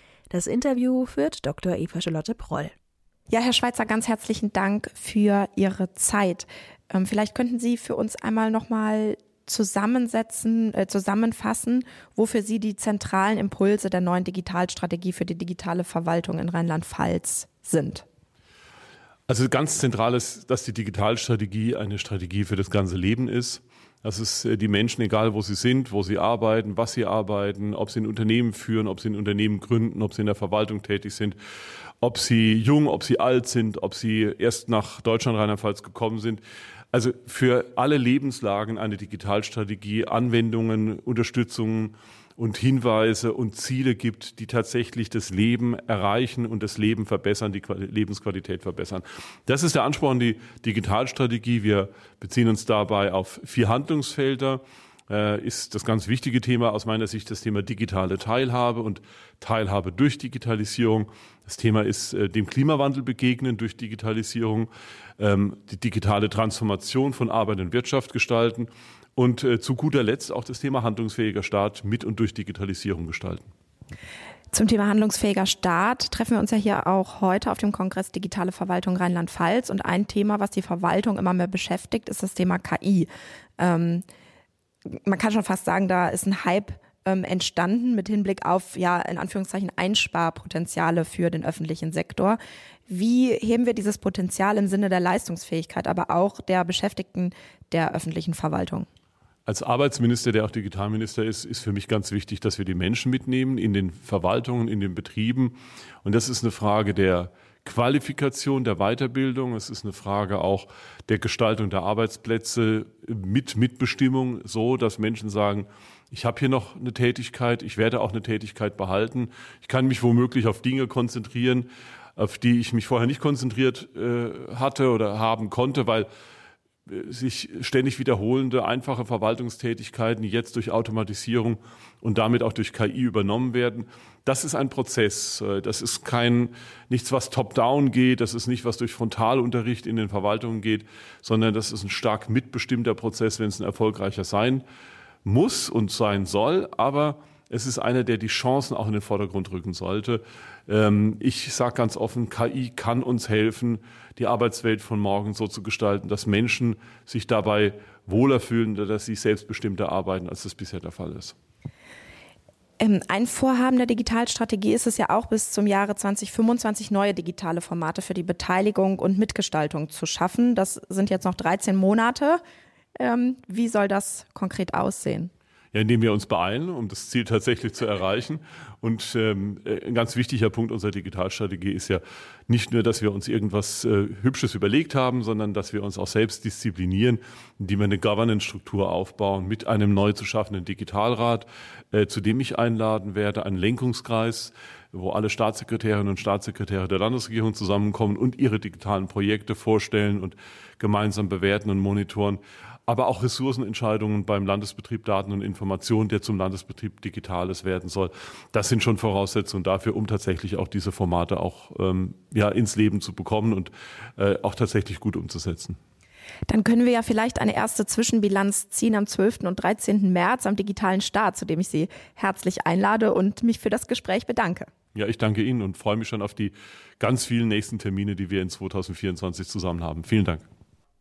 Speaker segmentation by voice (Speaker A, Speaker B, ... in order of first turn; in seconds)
Speaker A: 0.3-2.7
Speaker B: 3.3-18.0, 74.5-84.0, 84.9-98.9, 162.8-172.4, 173.0-175.3, 216.5-224.7
Speaker C: 19.3-31.4, 32.0-36.4, 36.9-73.5, 99.5-126.1, 126.9-144.7, 145.2-161.3, 175.7-215.8, 224.9-230.5